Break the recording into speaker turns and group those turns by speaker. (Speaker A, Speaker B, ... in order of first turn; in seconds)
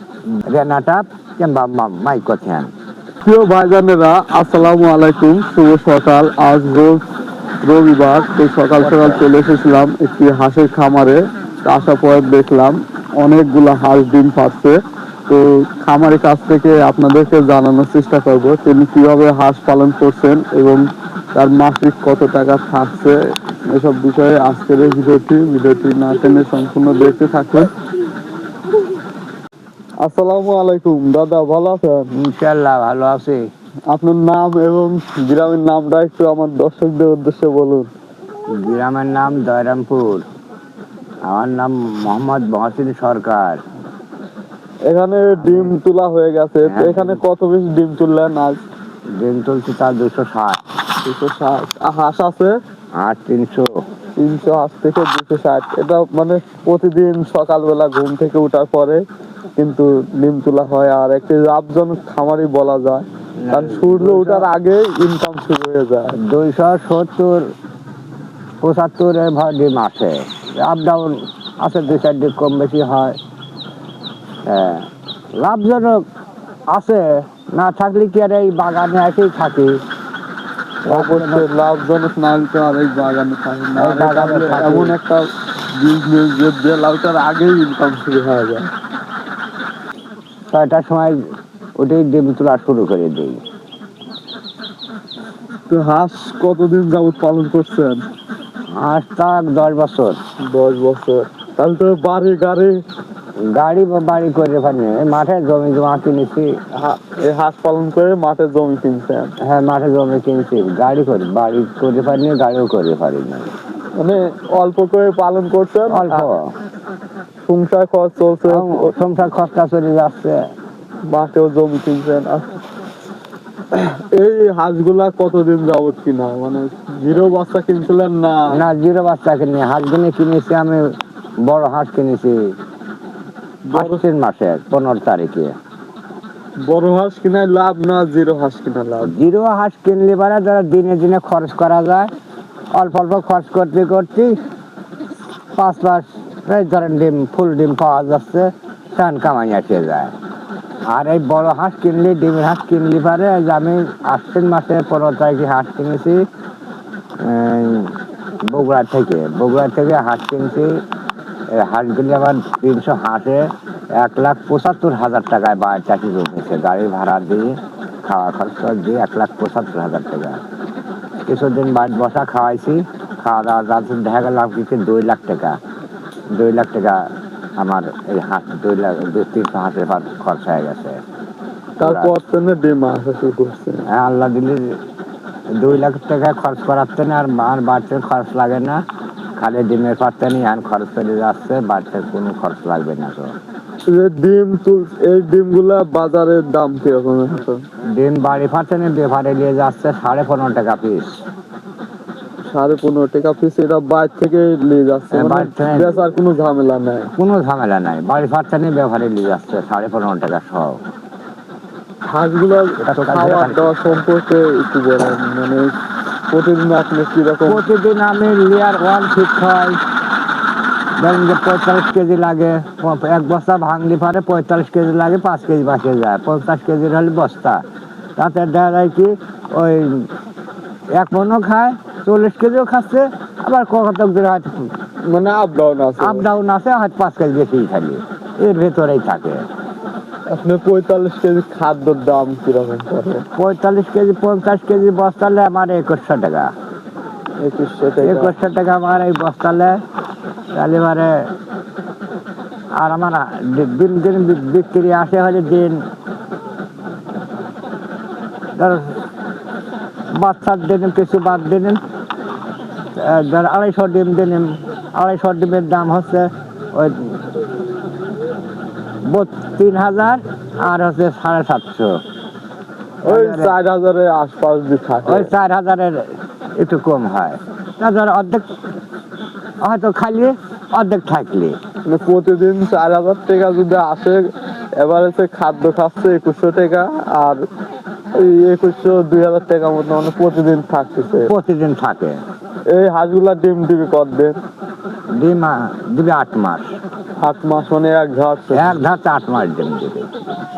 Speaker A: 0.3-2.7, 8.8-9.2, 32.1-33.5, 38.5-40.2, 41.2-43.6, 45.4-45.7, 46.6-47.2, 49.1-50.6, 53.0-53.8, 63.4-64.5, 66.2-67.5, 68.6-73.2, 74.4-74.9, 75.4-76.0, 76.7-79.8, 80.9-81.5, 83.7-84.9, 90.5-91.2, 91.8-93.4, 98.7-100.2, 103.4-106.6, 109.4-113.5, 115.9-116.5, 118.5-120.4, 128.5-132.5, 133.7-135.5, 139.0-142.1, 142.7-144.3, 145.5-150.1, 150.9-156.2, 157.2-160.8, 161.5-170.4, 171.3-175.6, 176.3-181.0, 181.8-182.1, 183.9-184.8, 185.5-188.8, 189.4-193.3, 197.9-201.2, 205.1-206.1, 207.2-210.8, 212.8-214.0, 217.4-219.8, 221.0-227.6, 228.2-230.1, 230.9-234.7, 236.0-239.4, 243.3-246.5, 248.0-249.8, 250.5-251.2, 252.8-255.8, 258.5-258.9, 260.1-261.8, 262.9-267.4, 269.1-272.0, 273.0-273.5, 275.1-278.4, 279.6-281.6, 291.3-292.2, 295.1-296.7, 298.5-300.1
Speaker B: 3.2-7.0, 7.6-27.7, 30.0-32.1, 33.9-37.9, 44.9-48.6, 51.0-52.6, 54.2-59.0, 59.6-66.2, 80.8-88.7, 95.7-98.0, 100.4-102.8, 106.7-109.3, 114.0-116.3, 117.5-118.9, 121.1-122.6, 123.7-128.6, 133.7-134.0, 136.6-139.1, 181.8-183.8, 193.9-197.6, 202.5-207.1, 212.1-215.8, 216.3-217.6, 235.1-236.3, 240.3-243.2, 247.4-248.3, 273.0-275.3, 281.9-287.4, 288.1-291.3, 292.7-294.4, 297.2-298.8